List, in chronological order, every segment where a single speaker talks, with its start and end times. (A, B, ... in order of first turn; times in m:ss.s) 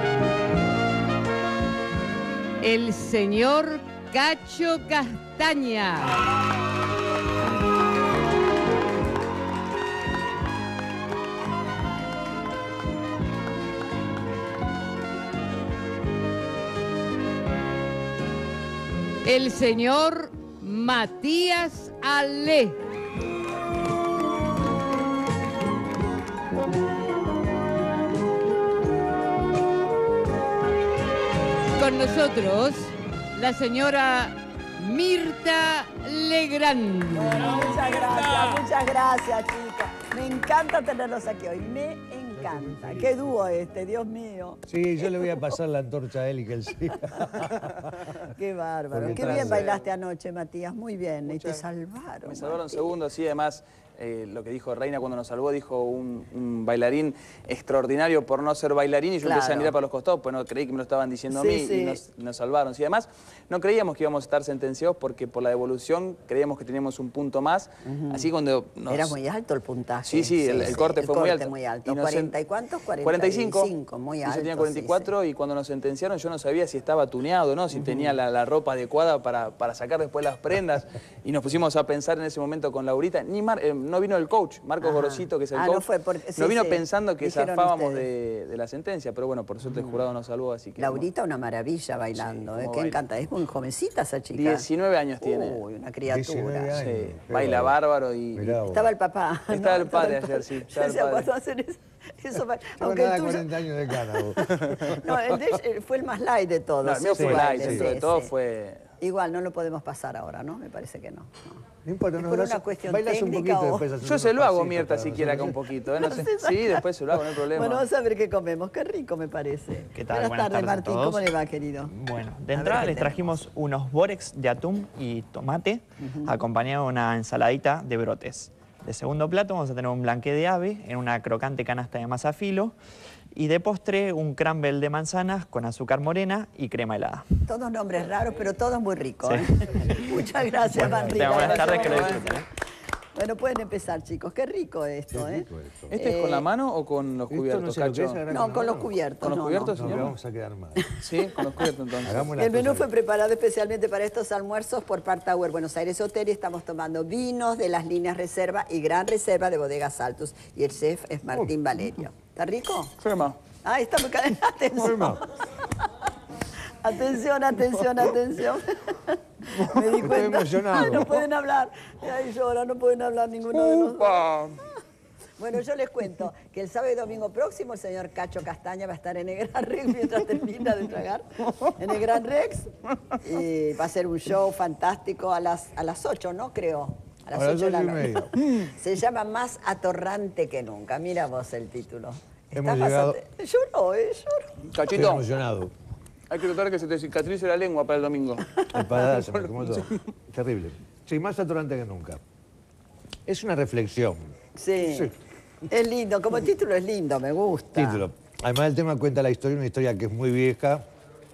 0:02.6-0:06.2 A
0:19.2-0:22.8 A
0:31.8-0:38.6 A
0:37.1-0:45.5 B
0:42.4-0:43.7 C
0:44.7-0:48.1 C
0:47.1-0:47.5 B
0:48.2-0:52.9 B
0:48.9-0:49.7 C
0:49.1-0:49.8 D
0:51.3-0:51.6 D
0:52.2-1:09.2 D
0:59.2-0:59.7 B
1:01.3-1:02.0 B
1:07.8-1:08.3 B
1:08.9-1:15.1 B
1:10.0-1:12.3 D
1:13.0-1:13.7 D
1:14.2-1:25.8 D
1:17.8-1:18.1 B
1:24.8-1:28.0 B
1:26.4-1:31.1 D
1:29.6-1:30.0 B
1:30.8-1:34.7 B
1:32.2-1:33.0 D
1:34.3-1:35.6 D
1:35.2-1:36.8 B
1:36.1-1:37.8 C
1:36.7-1:38.6 D
1:38.3-1:38.9 C
1:38.7-1:48.3 B
1:39.5-1:41.3 D
1:42.8-1:44.9 C
1:46.8-1:48.8 D
1:47.2-1:48.0 C
1:49.0-1:51.6 B
1:51.8-1:55.6 C
1:52.2-1:53.8 B
1:54.0-1:57.8 D
1:56.0-2:01.9 B
1:59.9-2:01.2 E
2:01.9-2:02.4 C
2:02.2-2:12.8 E
2:02.5-2:03.4 B
2:06.0-2:06.3 B
2:13.3-2:17.3 E
2:17.5-2:22.4 B
2:19.9-2:21.2 C
2:21.1-2:22.4 E
2:21.1-2:22.4 D
2:23.2-2:26.4 B
2:25.1-2:25.9 C
2:25.9-2:28.2 D
2:27.3-2:28.9 C
2:28.3-2:30.1 B
2:29.2-2:30.1 D
2:29.7-2:30.9 C
2:31.0-2:32.3 D
2:32.0-2:32.9 C
2:32.3-2:42.9 B
2:43.0-2:43.4 D
2:43.6-2:45.6 B
2:44.7-2:45.2 C
2:46.8-2:54.4 B
2:49.5-2:51.2 C
2:53.6-2:54.1 C
2:54.1-2:54.6 D
2:55.4-3:14.7 B
3:07.3-3:08.3 C
3:12.5-3:13.2 C
3:14.7-3:15.3 D
3:14.9-3:15.7 C
3:16.3-3:18.6 D
3:18.7-3:22.2 C
3:19.2-3:20.0 D
3:23.2-3:25.1 C
3:24.6-3:25.1 B
3:25.7-3:28.0 B
3:27.7-3:30.8 C